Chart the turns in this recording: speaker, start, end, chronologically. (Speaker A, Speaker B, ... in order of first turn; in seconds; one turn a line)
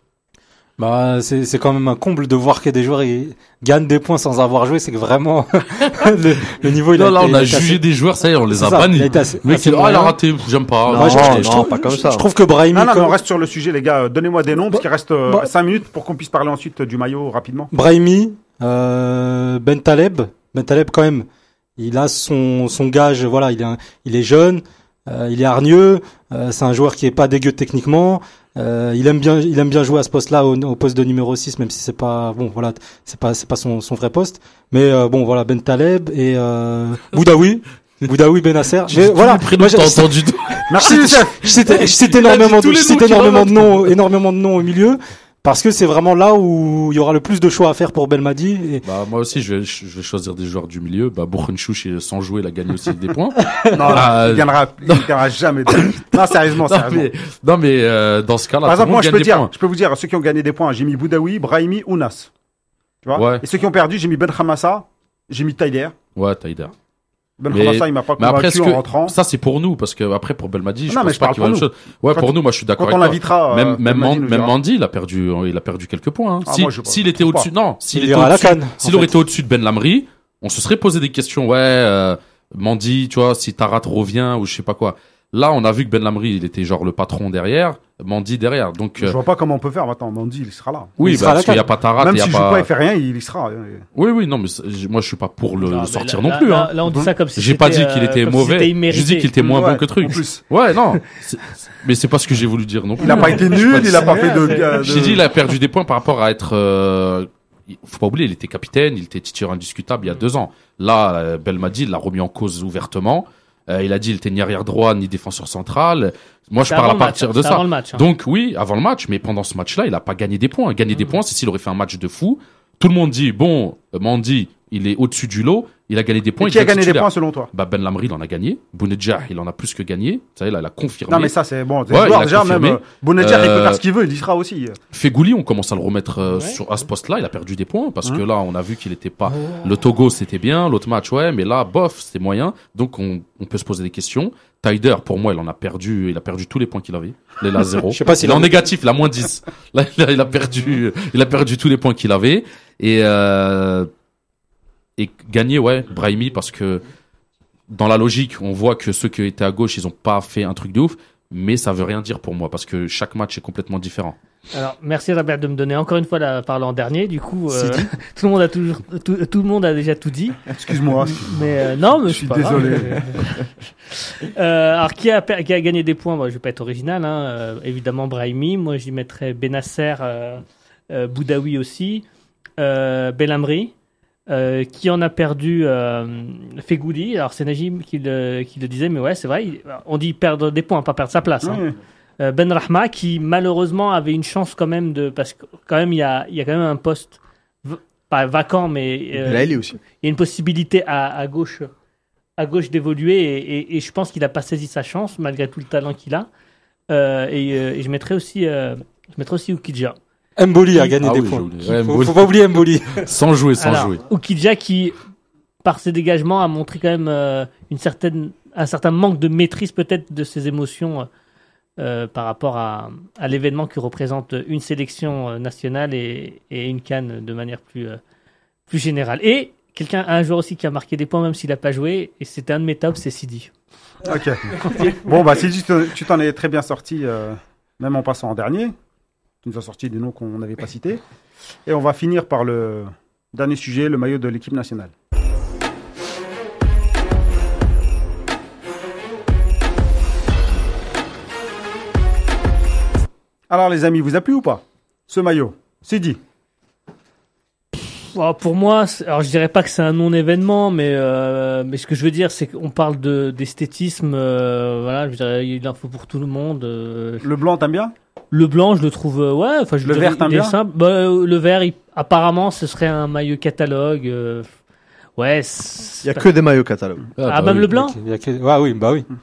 Speaker A: 0.8-7.8
Speaker B: 6.9-11.7
Speaker A: 8.5-10.2
Speaker C: 10.9-12.2
Speaker A: 10.9-13.2
Speaker D: 12.7-17.7
Speaker A: 14.7-15.5
Speaker A: 17.7-21.2
Speaker A: 21.8-48.8
Speaker B: 38.9-41.0
Speaker D: 40.7-41.5
Speaker B: 42.2-43.6
Speaker B: 48.8-55.1
Speaker A: 53.5-54.0
Speaker D: 53.7-57.1
Speaker B: 55.6-59.5
Speaker D: 58.6-62.3
Speaker D: 63.0-65.9
Speaker B: 63.1-63.4
Speaker B: 66.2-66.7
Speaker D: 67.4-69.1
Speaker B: 67.5-89.2
Speaker D: 70.9-74.5
Speaker D: 76.4-77.5
Speaker A: 77.9-79.2
Speaker D: 89.0-91.0
Speaker B: 91.0-92.7
Speaker A: 91.0-91.7
Speaker D: 92.0-93.8
Speaker B: 93.9-96.7
Speaker E: 95.6-99.3
Speaker B: 97.3-131.3
Speaker D: 99.4-100.4
Speaker D: 103.0-105.3
Speaker E: 103.0-105.1
Speaker E: 116.6-118.0
Speaker D: 126.4-127.5
Speaker D: 131.1-134.8
Speaker B: 131.9-133.8
Speaker B: 134.9-153.9
Speaker E: 136.3-136.6
Speaker A: 147.9-148.6
Speaker B: 155.0-156.8
Speaker B: 157.7-164.2
Speaker E: 164.5-182.0
Speaker D: 167.5-167.9
Speaker D: 170.6-171.4
Speaker D: 172.0-173.0
Speaker E: 182.6-183.7
Speaker E: 184.3-191.6
Speaker D: 191.4-191.8
Speaker E: 192.2-201.7
Speaker C: 199.3-199.8
Speaker E: 202.4-206.3
Speaker E: 206.9-210.0
Speaker A: 210.4-213.0
Speaker B: 210.7-212.3
Speaker B: 213.0-214.0
Speaker E: 213.6-215.0
Speaker E: 215.6-221.1
Speaker E: 221.8-228.0
Speaker E: 228.7-233.5
Speaker D: 234.0-238.7
Speaker D: 239.4-241.0
Speaker D: 241.7-244.9
Speaker D: 253.5-256.2
Speaker E: 257.7-267.3
Speaker D: 267.2-267.9
Speaker E: 268.3-274.5
Speaker D: 269.8-270.6
Speaker E: 275.2-276.3
Speaker C: 276.0-277.1
Speaker E: 277.2-277.9
Speaker A: 277.3-279.1